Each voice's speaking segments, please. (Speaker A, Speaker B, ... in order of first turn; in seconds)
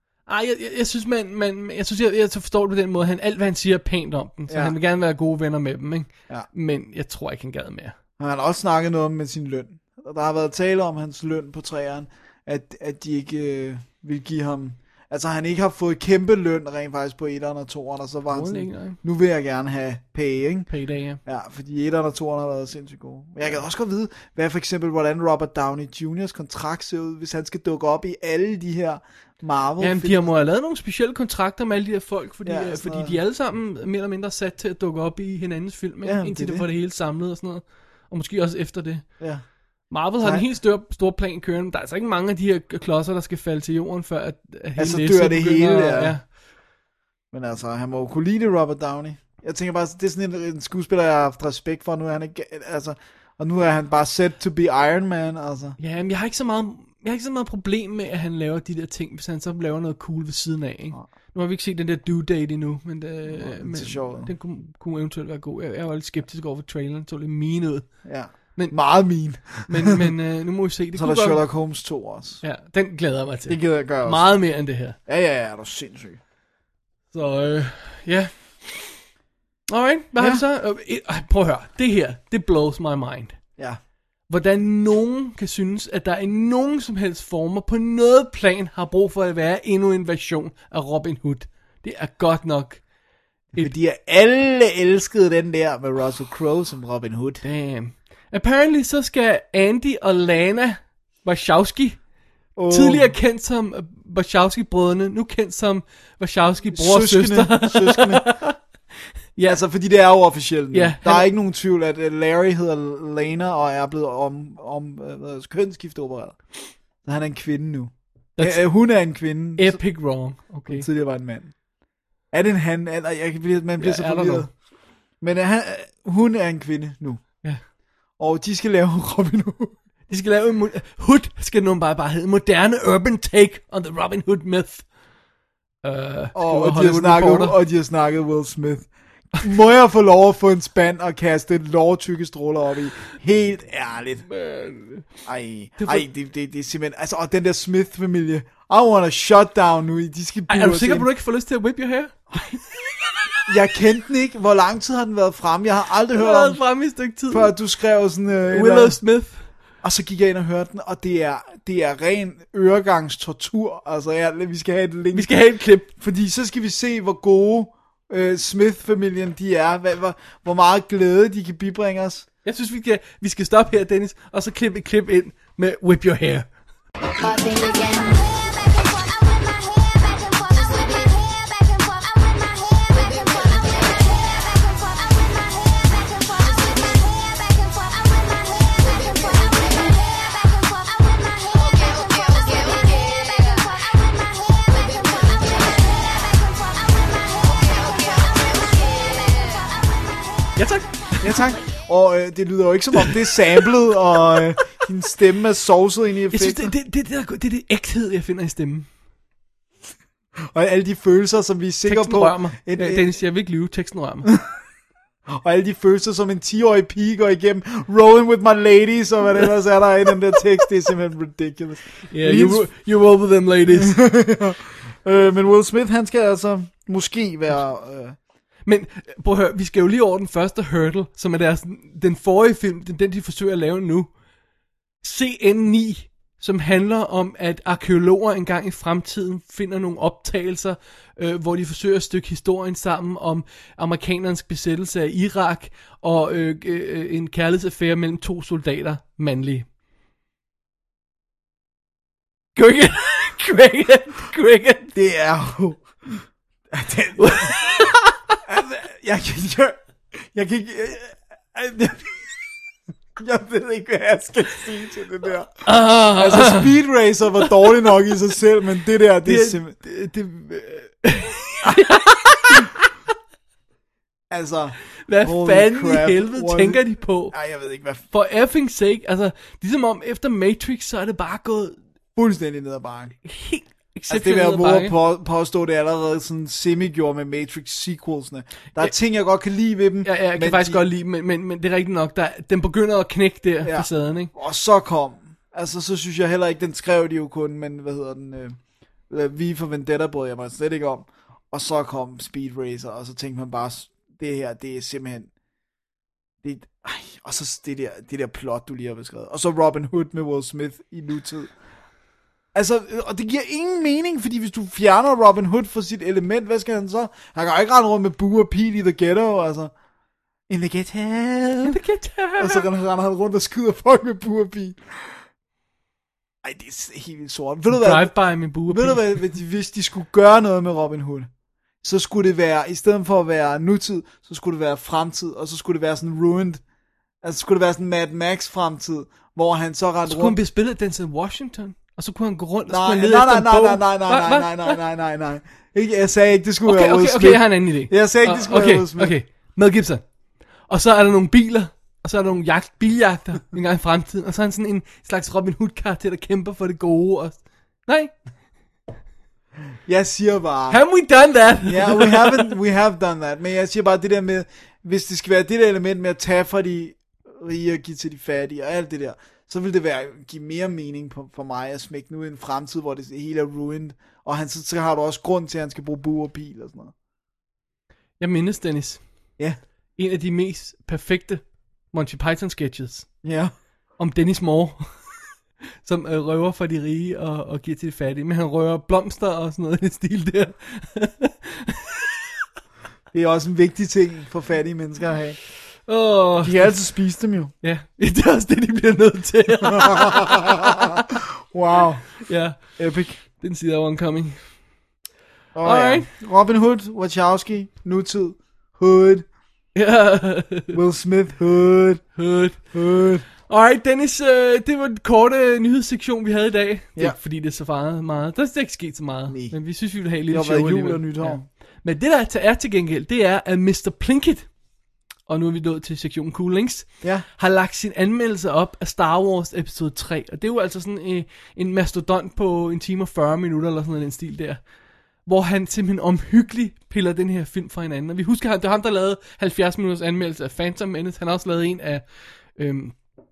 Speaker A: 0.3-8.0, 18.3-19.0, 20.7-21.2, 29.8-39.2, 39.9-46.3, 55.8-67.9, 69.6-71.4, 72.4-75.0, 77.1-79.0, 79.7-83.4, 84.3-92.8, 97.4-102.0, 102.7-108.6, 110.7-111.3, 118.4-118.7, 119.6-120.9, 123.8-124.5, 130.1-134.9, 135.8-137.6, 144.3-145.1, 145.8-146.1, 150.5-153.1, 156.1-157.5, 158.5-159.4, 165.1-165.9, 172.4-176.5, 200.6-201.5, 202.9-203.7, 206.3-208.9, 211.8-214.3, 222.1-224.0, 228.7-234.1, 235.0-249.7, 252.6-254.9, 257.2-258.2, 265.6-266.7, 269.2-272.9, 275.1-277.4, 278.1-281.8, 283.2-284.9, 290.0-294.3, 321.6-322.7, 327.7-329.1, 340.1-344.8, 346.6-350.1, 350.7-358.1, 360.7-362.6, 378.2-379.0, 379.9-383.1, 384.0-384.9, 385.8-392.0, 395.9-396.8, 397.6-400.9, 402.2-404.4, 405.6-406.1, 409.8-410.8, 412.1-412.7, 413.4-424.5, 425.2-434.6, 435.2-443.0
Speaker B: 4.5-4.8, 8.2-20.7, 21.2-30.3, 32.4-33.2, 36.0-36.7, 39.2-39.4, 40.2-40.4, 44.8-46.2, 47.3-55.8, 63.3-64.3, 68.0-70.0, 70.9-72.4, 73.5-74.3, 75.1-76.2, 80.2-80.4, 93.5-97.4, 102.5-103.1, 106.7-108.4, 109.4-116.4, 117.0-119.8, 120.6-121.5, 122.3-124.5, 125.2-127.3, 128.2-129.8, 136.3-144.3, 145.2-151.1, 153.4-156.6, 157.3-159.0, 159.8-165.3, 165.9-172.2, 201.2-206.7, 210.4-213.1, 215.3-222.7, 223.7-228.2, 254.9-257.9, 258.5-262.4, 263.1-269.7, 274.3-278.0, 282.1-283.1, 284.1-290.8, 293.6-298.6, 299.1-305.3, 306.4-311.5, 312.5-319.7, 320.5-321.8, 322.4-325.2, 326.4-331.3, 331.8-336.6, 337.2-340.4, 342.7-349.2, 359.9-360.8, 361.6-376.9, 383.2-383.5, 393.1-395.4, 396.4-397.5, 399.6-403.2, 405.5-409.3, 410.7-412.2, 412.7-413.2, 419.3-419.6, 420.3-421.4
Speaker C: 177.2-199.7